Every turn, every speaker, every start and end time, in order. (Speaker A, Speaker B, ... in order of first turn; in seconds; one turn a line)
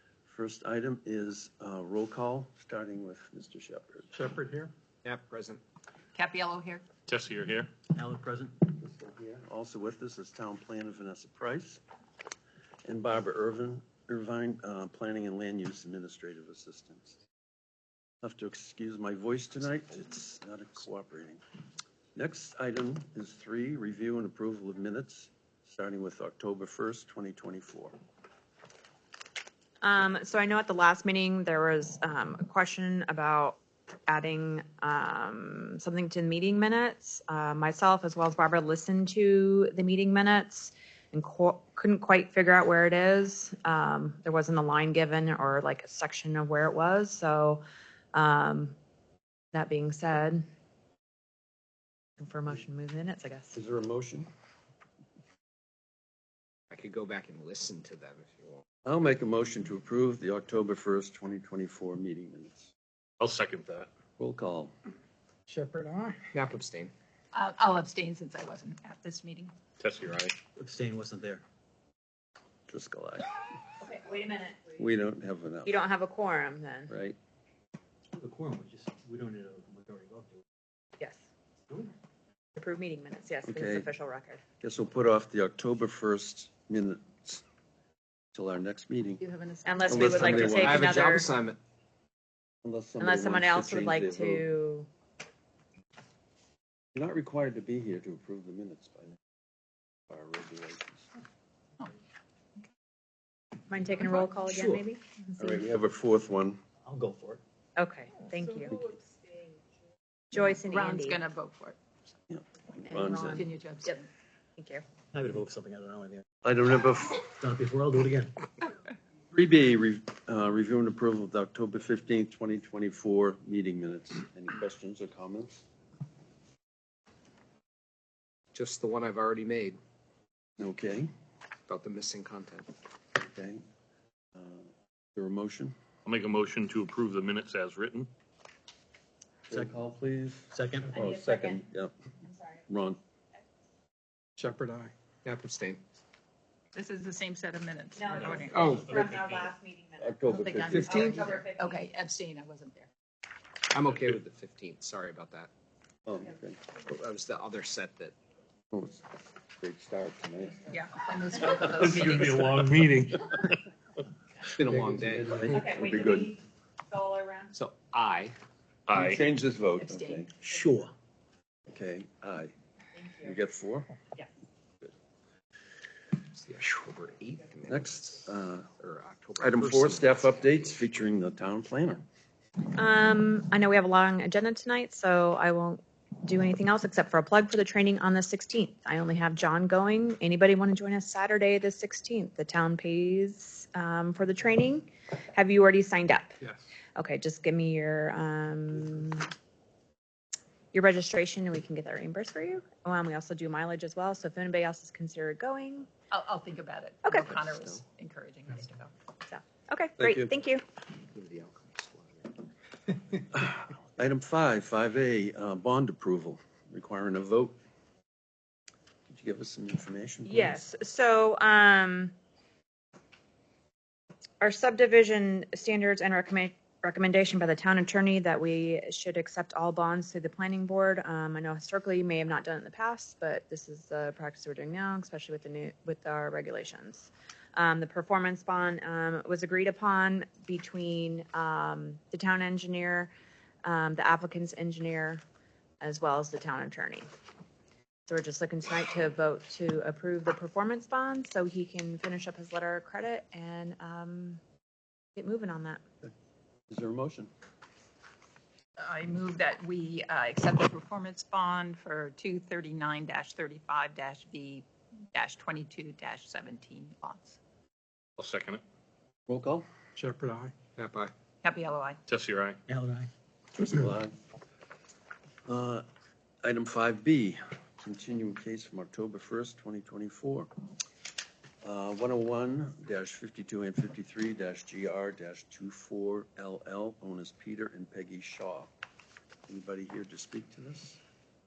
Speaker A: 0.3-4.1
Speaker B: 4.2-4.7
Speaker C: 5.0-5.6
Speaker D: 6.1-6.8
Speaker E: 7.1-7.7
Speaker B: 7.9-8.7
Speaker A: 8.7-11.8
Speaker A: 12.8-17.1
Speaker A: 18.2-21.4
Speaker A: 22.1-27.9
Speaker F: 29.8-48.8
Speaker F: 49.5-50.5
Speaker F: 52.2-53.6
Speaker A: 53.5-54.3
Speaker C: 56.7-58.6
Speaker A: 58.8-62.7
Speaker E: 63.2-63.9
Speaker A: 64.2-64.7
Speaker B: 65.5-66.2
Speaker C: 66.3-66.9
Speaker D: 67.3-69.5
Speaker E: 69.8-70.3
Speaker B: 70.6-71.4
Speaker A: 72.7-73.3
Speaker F: 73.8-74.8
Speaker A: 74.8-75.7
Speaker F: 75.7-76.9
Speaker A: 76.9-77.2
Speaker B: 78.2-80.4
Speaker F: 82.5-84.4
Speaker A: 83.4-83.9
Speaker A: 84.6-87.4
Speaker A: 88.3-89.2
Speaker D: 89.2-90.8
Speaker F: 89.7-91.3
Speaker A: 89.9-90.9
Speaker C: 90.0-91.6
Speaker A: 92.6-94.5
Speaker F: 93.0-94.9
Speaker A: 96.9-99.2
Speaker A: 100.1-101.1
Speaker F: 103.7-105.5
Speaker A: 105.4-106.6
Speaker B: 106.8-107.4
Speaker F: 107.8-108.8
Speaker D: 108.3-109.5
Speaker F: 110.3-111.2
Speaker D: 110.5-111.8
Speaker A: 112.3-113.5
Speaker F: 112.8-114.0
Speaker D: 113.3-114.0
Speaker F: 114.6-114.8
Speaker B: 115.1-116.2
Speaker A: 116.4-117.3
Speaker B: 117.4-118.3
Speaker A: 119.3-125.6
Speaker C: 128.5-129.8
Speaker A: 130.6-131.1
Speaker C: 131.7-132.7
Speaker A: 133.2-133.6
Speaker A: 134.3-135.7
Speaker E: 136.1-138.1
Speaker A: 139.5-141.9
Speaker B: 139.5-139.8
Speaker B: 140.5-140.9
Speaker F: 140.9-141.7
Speaker F: 142.2-142.6
Speaker A: 142.7-143.0
Speaker C: 144.4-145.8
Speaker D: 146.7-149.1
Speaker F: 147.9-151.9
Speaker C: 148.5-149.1
Speaker A: 150.0-151.1
Speaker D: 150.3-152.9
Speaker C: 150.7-151.3
Speaker C: 153.7-155.5
Speaker A: 156.1-156.6
Speaker C: 156.8-158.1
Speaker A: 158.7-159.1
Speaker A: 159.6-160.7
Speaker D: 160.7-162.7
Speaker E: 161.8-163.3
Speaker C: 164.6-165.6
Speaker A: 164.6-166.3
Speaker F: 165.5-167.5
Speaker C: 167.5-168.4
Speaker E: 168.9-169.2
Speaker A: 168.9-170.3
Speaker D: 169.8-170.3
Speaker A: 171.7-172.5
Speaker F: 172.9-173.3
Speaker A: 173.2-173.9
Speaker C: 176.3-178.2
Speaker A: 177.7-178.7
Speaker C: 178.8-180.8
Speaker A: 179.4-182.0
Speaker F: 182.7-196.4
Speaker F: 196.9-199.3
Speaker F: 200.7-205.9
Speaker D: 206.1-208.9
Speaker F: 207.0-207.3
Speaker F: 209.3-210.6
Speaker A: 210.0-210.3
Speaker C: 211.1-212.4
Speaker A: 213.3-217.6
Speaker A: 219.1-220.6
Speaker F: 220.2-222.1
Speaker F: 224.4-243.1
Speaker F: 243.6-245.2
Speaker F: 245.8-247.1
Speaker F: 248.1-254.4
Speaker F: 255.2-255.8
Speaker A: 256.7-257.3
Speaker D: 258.8-267.4
Speaker E: 268.2-268.6
Speaker A: 269.3-269.6
Speaker B: 270.0-270.5
Speaker C: 270.7-271.1
Speaker D: 271.4-272.0
Speaker E: 272.1-272.6
Speaker B: 272.7-273.1
Speaker A: 273.5-274.1
Speaker A: 275.4-275.8
Speaker A: 276.4-280.5
Speaker A: 281.6-288.7
Speaker A: 289.5-291.0